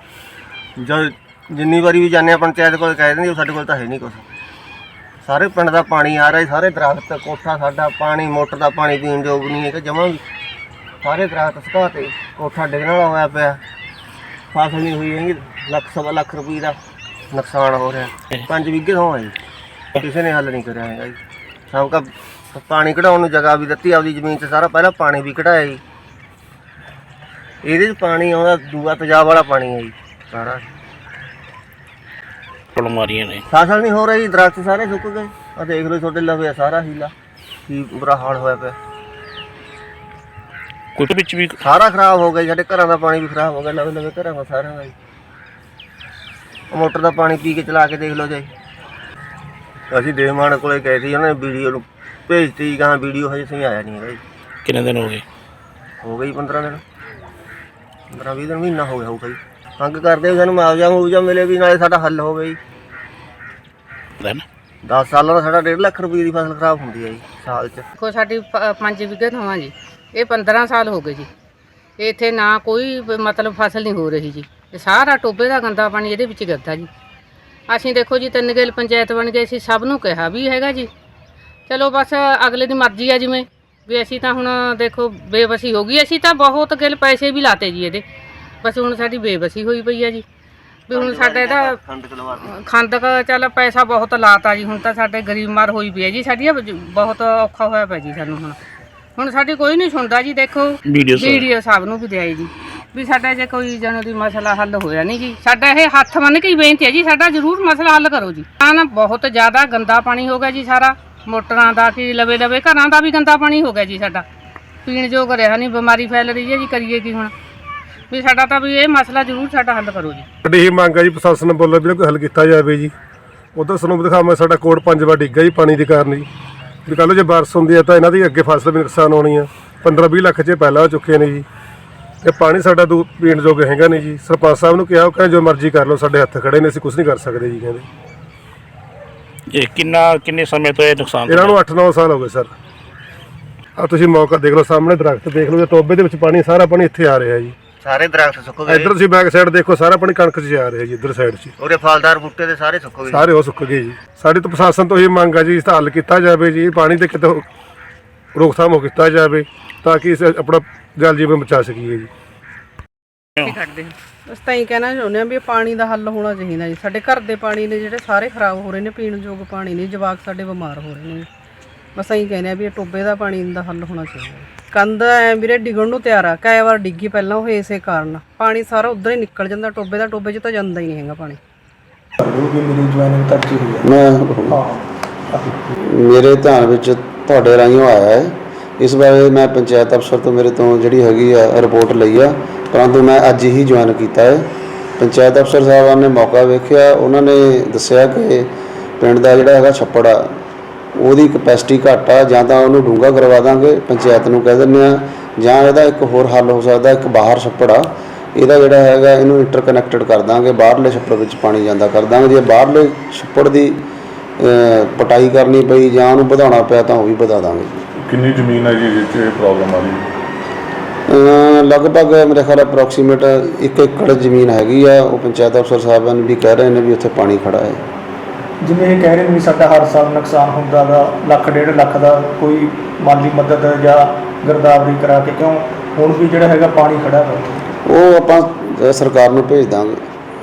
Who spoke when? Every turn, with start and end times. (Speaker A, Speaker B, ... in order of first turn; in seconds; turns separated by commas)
Speaker A: 0.8-4.3, Speaker A: 5.2-10.2, Speaker A: 11.0-13.6, Speaker A: 14.5-16.8, Speaker A: 17.3-19.4, Speaker A: 20.0-21.2, Speaker A: 21.7-25.8, Speaker A: 27.6-30.7, Speaker B: 32.8-33.4, Speaker A: 33.5-37.1, Speaker A: 37.7-38.8, Speaker B: 41.0-41.5, Speaker A: 41.6-44.9, Speaker A: 46.7-48.5, Speaker A: 49.9-54.2, Speaker B: 54.6-55.2, Speaker A: 56.0-56.8, Speaker A: 58.1-62.6, Speaker B: 64.2-64.4, Speaker A: 64.9-67.9, Speaker C: 68.0-71.3, Speaker C: 72.0-76.9, Speaker C: 77.7-80.9, Speaker C: 81.7-88.0, Speaker C: 88.6-90.2, Speaker C: 90.9-91.8, Speaker A: 90.9-92.5, Speaker C: 92.4-98.6, Speaker C: 99.2-114.2, Speaker B: 100.9-101.5, Speaker C: 114.9-117.3, Speaker C: 118.1-120.3, Speaker D: 120.4-122.9, Speaker D: 123.5-126.3, Speaker D: 126.9-131.4, Speaker D: 132.2-137.8, Speaker B: 139.5-141.6, Speaker D: 141.3-142.5, Speaker D: 143.8-147.6, Speaker A: 147.8-148.9, Speaker D: 148.7-151.5, Speaker A: 151.6-153.3, Speaker D: 153.1-157.4, Speaker D: 158.3-162.1, Speaker C: 163.4-163.9, Speaker E: 164.3-171.3, Speaker E: 172.0-181.4, Speaker F: 182.2-183.9, Speaker G: 183.8-184.6, Speaker F: 184.5-185.5, Speaker G: 185.7-194.5, Speaker G: 195.0-200.3, Speaker G: 200.9-213.8, Speaker G: 214.4-217.8, Speaker H: 218.0-220.1, Speaker G: 221.1-227.8, Speaker F: 228.6-237.6, Speaker G: 237.9-240.0